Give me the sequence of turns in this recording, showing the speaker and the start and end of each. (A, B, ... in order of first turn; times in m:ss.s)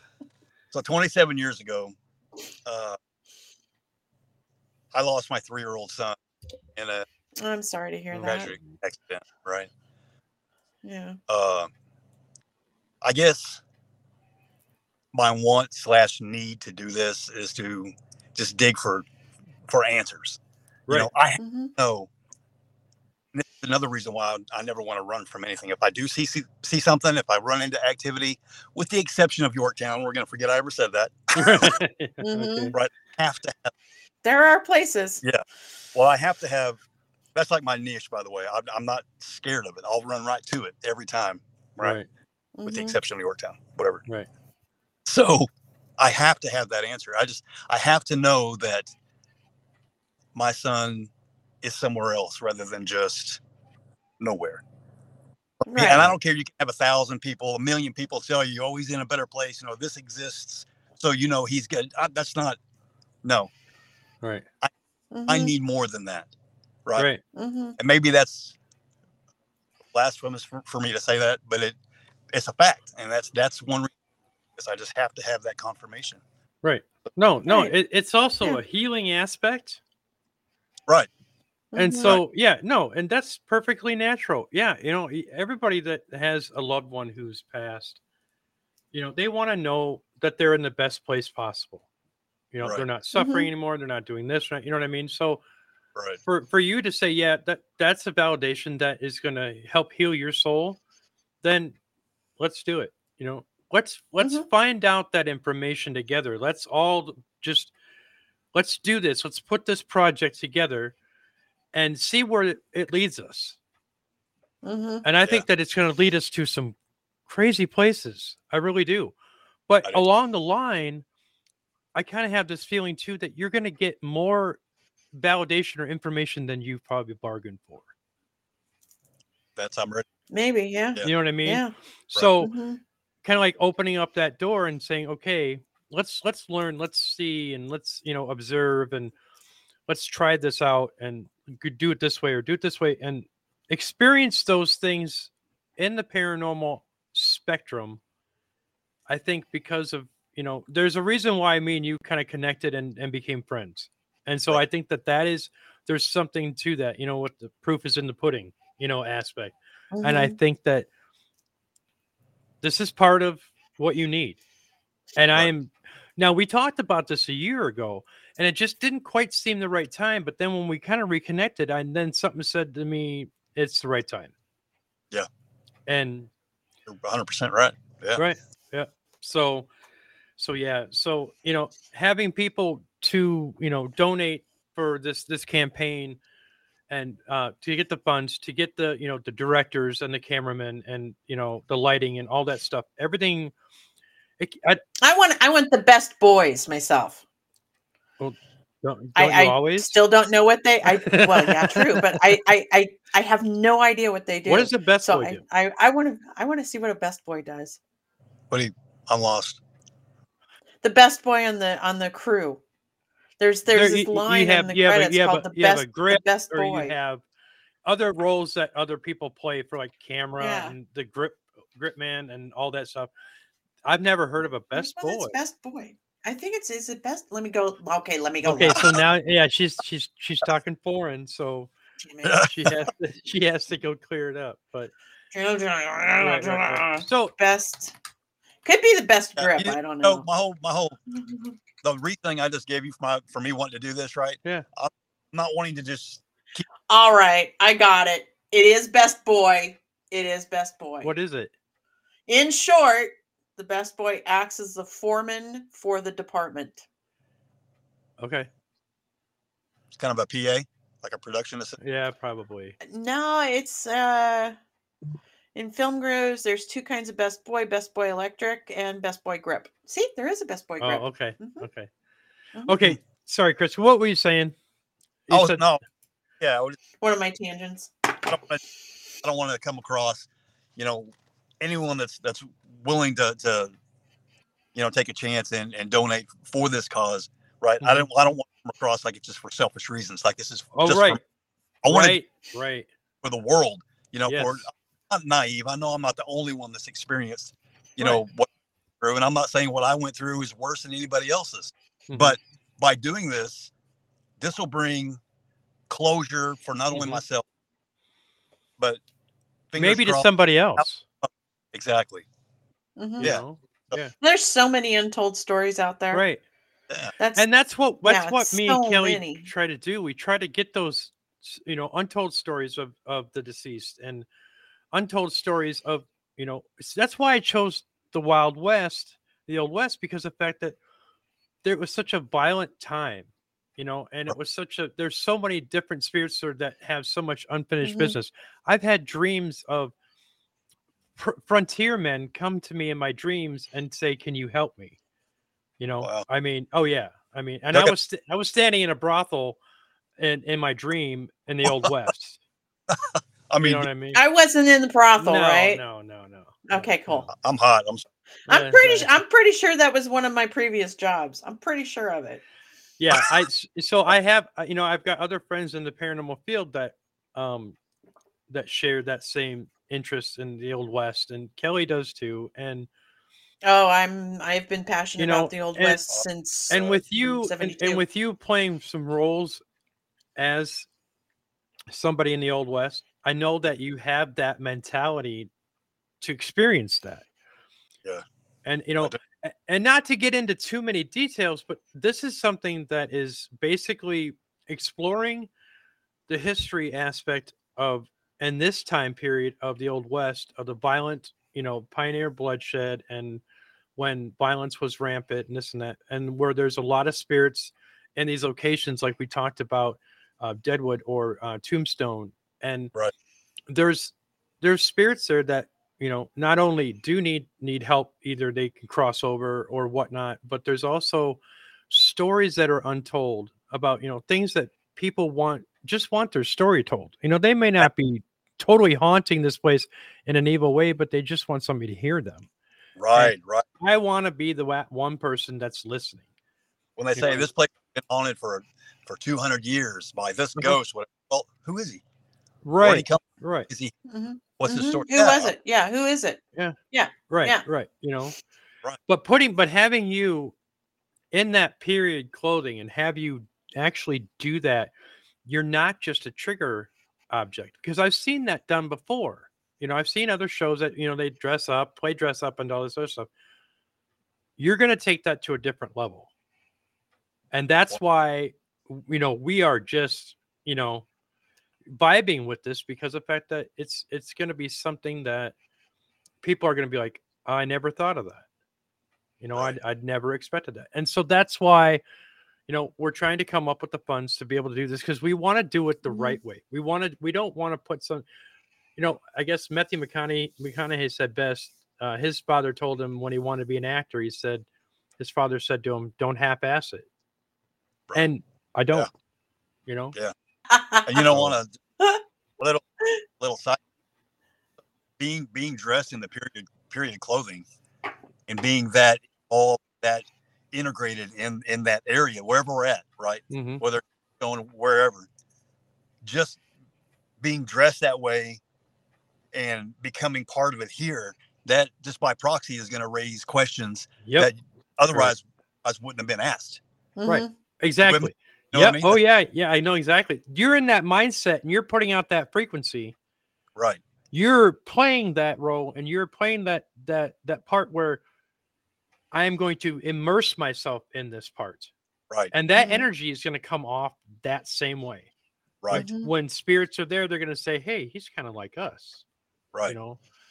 0:00.7-0:02.0 A
0:02.7-0:03.0 A
0:04.9-0:06.2 A
0:06.8-0:07.1 A
0:07.4-0:08.5 B
0:08.2-0:08.8 C
0:08.2-0:09.7 A
0:10.8-0:11.2 B
0:11.3-0:11.7 A
0:13.0-0:13.6 A
0:15.1-0:19.1 A
0:19.7-0:22.1 A
0:21.4-0:21.7 B
0:23.3-0:31.8 A
0:31.4-0:32.8 C
0:32.2-0:32.8 B
0:32.7-0:33.7 A
0:34.2-0:35.2 B
0:35.9-0:36.8 A
0:37.4-0:42.0 A
0:41.8-0:42.1 C
0:42.6-0:43.0 B
0:42.7-0:44.0 A
0:45.0-0:48.9 A
0:50.4-0:51.1 A
0:51.6-0:53.4 A
0:54.2-0:54.6 A
0:55.6-1:02.6 A
0:55.7-0:56.1 B
1:03.2-1:03.5 A
1:05.1-1:05.5 B
1:05.3-1:06.3 A
1:07.3-1:07.8 B
1:07.8-1:08.6 A
1:09.9-1:11.8 A
1:12.3-1:13.9 A
1:14.6-1:16.2 A
1:16.6-1:19.8 C
1:17.5-1:17.7 B
1:21.7-1:22.2 B
1:21.8-1:28.0 C
1:28.9-1:31.9 C
1:32.5-1:35.4 C
1:33.2-1:33.5 B
1:36.2-1:40.8 C
1:41.4-1:41.8 C
1:42.4-1:47.7 C
1:44.2-1:44.5 B
1:48.5-1:51.0 C
1:51.7-1:53.6 C
1:54.6-1:55.0 B
1:55.0-1:59.2 C
1:59.7-2:01.0 C
2:02.0-2:04.6 C
2:05.1-2:07.9 C
2:09.6-2:10.0 A
2:10.3-2:11.7 B
2:11.0-2:12.5 C
2:12.4-2:12.8 B
2:13.2-2:19.1 C
2:19.9-2:28.0 C
2:29.1-2:40.9 C
2:39.9-2:40.4 B
2:42.6-2:44.4 C
2:45.2-2:54.3 C
2:55.9-2:56.3 C
2:56.9-2:58.2 A
2:58.2-2:59.7 C
3:00.4-3:06.2 C
3:06.9-3:13.5 C
3:14.4-3:14.8 C
3:15.0-3:17.2 B
3:18.2-3:20.0 C
3:19.2-3:27.8 B
3:20.9-3:22.3 C
3:24.5-3:25.4 C
3:28.5-3:29.6 A
3:30.8-3:32.6 B
3:33.4-3:37.0 B
3:33.7-3:37.2 C
3:37.8-3:43.1 C
3:40.4-3:40.8 B
3:43.8-3:45.4 C
3:44.7-3:48.9 B
3:48.4-3:51.7 C
3:48.8-3:49.0 A
3:52.0-3:52.4 B
3:52.2-3:52.9 A
3:52.4-3:54.9 C
3:55.3-3:57.9 B
3:56.2-3:57.3 C
3:58.6-4:00.2 B
3:59.4-4:01.0 A
4:01.1-4:01.6 B
4:01.8-4:06.6 A
4:06.9-4:11.1 B
4:11.0-4:11.5 C
4:12.3-4:16.8 B
4:18.2-4:18.5 C
4:19.9-4:21.8 A
4:21.8-4:22.8 C
4:22.8-4:24.6 B
4:25.6-4:31.7 B
4:30.8-4:31.9 C
4:32.6-4:33.0 B
4:32.7-4:34.6 C
4:35.3-4:35.6 C
4:35.3-4:35.8 A
4:36.4-4:36.8 A
4:37.0-4:38.2 B
4:38.3-4:38.6 A
4:39.2-4:43.7 A
4:44.8-4:51.2 A
4:47.8-4:48.1 C
4:50.7-4:51.2 C
4:51.8-4:52.2 A
4:51.9-4:52.9 C
4:53.2-4:58.5 A
4:54.3-4:54.7 C
4:59.0-5:03.7 A
5:02.1-5:02.4 C
5:04.4-5:05.2 A
5:05.9-5:07.4 A
5:06.9-5:07.2 C
5:09.7-5:12.3 A
5:09.8-5:11.0 C
5:13.0-5:13.4 B
5:13.2-5:14.1 C
5:13.2-5:14.0 A
5:14.2-5:16.2 B
5:16.1-5:16.4 C
5:17.2-5:17.5 B
5:17.4-5:24.3 C
5:18.0-5:19.5 B
5:24.9-5:30.8 C
5:31.6-5:39.9 C
5:37.8-5:38.2 B
5:41.2-5:45.0 C
5:45.8-5:49.6 C
5:50.2-5:52.4 C
5:51.6-5:52.1 A
5:52.9-5:53.9 A
5:53.6-5:54.2 C
5:54.1-5:55.8 B
5:55.2-5:57.3 C
5:56.7-5:57.3 B
5:57.3-5:58.0 A
5:58.5-6:02.4 B
5:58.5-5:59.2 C
6:03.0-6:07.8 C
6:08.5-6:12.9 C
6:13.6-6:18.0 B
6:15.2-6:16.0 C
6:16.1-6:17.0 A
6:16.7-6:19.6 C
6:20.4-6:20.9 C
6:21.9-6:25.5 C
6:26.2-6:27.3 C
6:28.6-6:35.5 C
6:36.3-6:43.4 C
6:44.0-6:52.9 C
6:53.7-7:12.5 C
7:13.0-7:13.6 A
7:13.1-7:16.2 C
7:17.0-7:22.0 A
7:17.2-7:17.5 C
7:22.6-7:23.7 C
7:22.8-7:23.9 A
7:24.1-7:27.6 B
7:24.6-7:25.5 A
7:27.3-7:28.4 C
7:29.1-7:30.6 C
7:31.3-7:34.9 C
7:35.5-7:43.3 C
7:44.6-7:46.3 C
7:47.5-7:51.1 C
7:51.9-7:55.6 C
7:56.4-7:58.4 C
7:59.4-8:02.0 C
8:02.7-8:08.2 C
8:06.0-8:06.4 B
8:09.0-8:14.7 C
8:15.2-8:17.1 C
8:18.2-8:19.1 C
8:19.9-8:20.2 C
8:20.7-8:21.3 B
8:21.0-8:21.8 A
8:22.6-8:22.8 A
8:23.4-8:23.8 A
8:25.2-8:27.7 A
8:28.5-8:35.3 A
8:33.5-8:33.8 C
8:36.2-8:36.6 A
8:37.4-8:38.6 A
8:39.5-8:46.8 A
8:44.2-8:44.5 C
8:47.2-8:47.5 B
8:47.3-8:53.1 C
8:48.0-8:49.2 A
8:53.8-8:54.0 A
8:54.3-8:58.2 C
8:59.3-9:01.9 C
9:02.5-9:05.3 C
9:02.8-9:03.1 B
9:05.9-9:09.2 C
9:05.9-9:06.3 B
9:09.9-9:10.2 C